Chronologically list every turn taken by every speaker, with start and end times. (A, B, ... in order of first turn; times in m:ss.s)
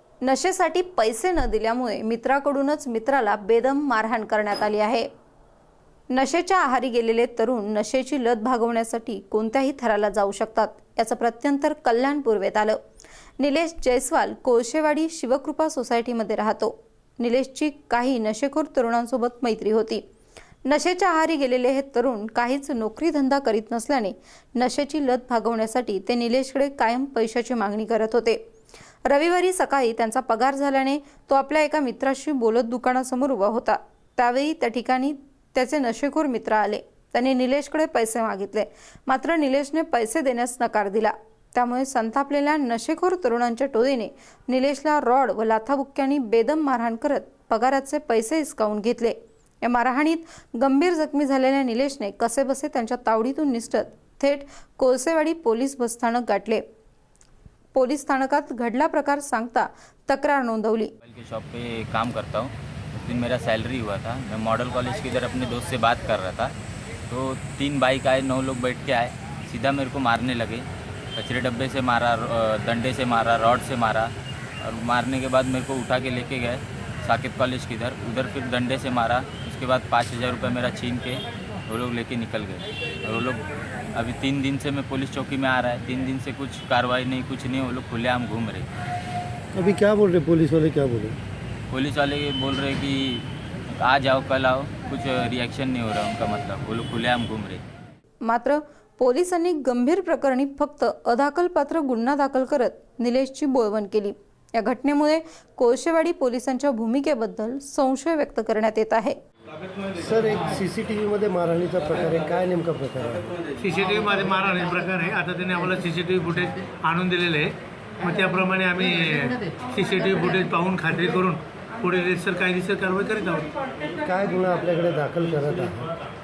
0:00.2-0:05.1 A
0:06.1-0:12.8 A
0:13.4-0:20.0 A
0:20.6-0:28.4 A
0:29.0-0:56.6 A
0:57.7-1:00.9 A
1:01.0-1:06.5 B
1:07.1-1:28.7 B
1:29.5-1:31.2 C
1:31.7-1:37.6 B
1:38.2-1:49.2 A
1:50.0-1:53.3 C
1:53.6-2:03.5 D
2:04.0-2:05.9 C